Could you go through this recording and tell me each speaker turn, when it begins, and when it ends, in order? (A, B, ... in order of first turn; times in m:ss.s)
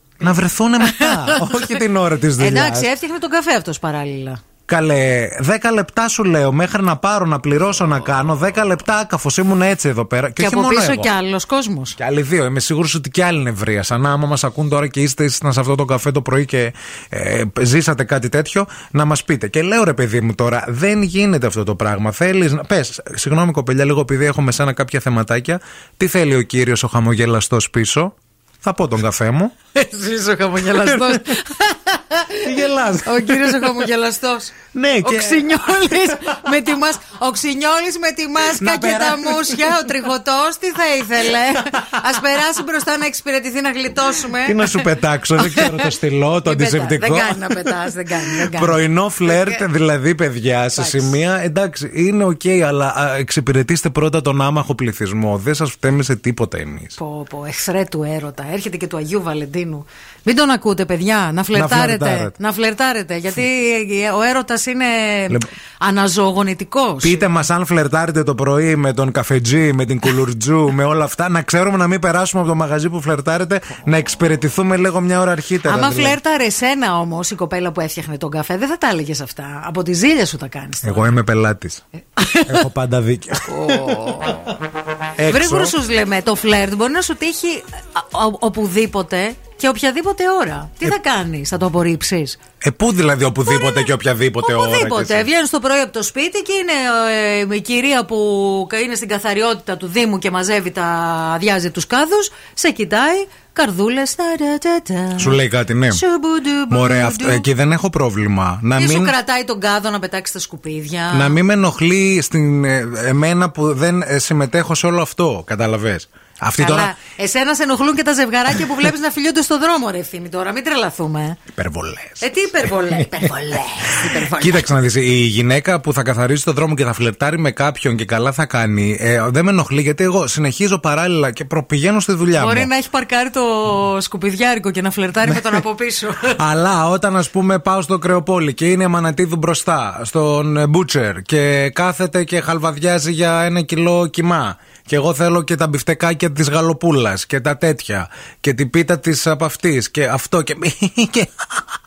0:00.2-0:02.9 A
0:00.8-0:01.8 B
0:02.4-0:04.4 B
0:04.7-0:11.1 A
0:10.4-0:12.0 B
0:12.0-0:29.5 A
0:29.7-0:45.9 B
0:30.7-0:31.4 A
0:32.4-0:33.9 A
0:34.7-0:36.3 A
0:38.5-0:39.7 A
0:44.4-0:47.5 A
0:46.4-0:49.6 B
0:48.4-0:57.0 A
0:50.8-0:51.1 B
0:57.0-1:07.2 B
1:01.5-1:02.3 A
1:07.0-1:16.2 A
1:15.6-1:21.2 B
1:20.8-1:21.8 A
1:22.2-1:22.7 B
1:22.4-1:24.5 A
1:23.4-1:24.5 B
1:25.2-1:25.8 A
1:25.3-1:32.4 B
1:32.6-1:35.3 A
1:33.4-1:47.5 B
1:45.2-1:46.0 A
1:46.7-1:49.1 A
1:48.8-1:51.4 B
1:51.1-1:56.9 A
1:56.6-2:01.4 B
2:01.5-2:02.2 A
2:02.2-2:04.7 B
2:02.9-2:03.3 A
2:03.9-2:12.7 A
2:12.4-2:16.4 B
2:16.3-2:31.3 A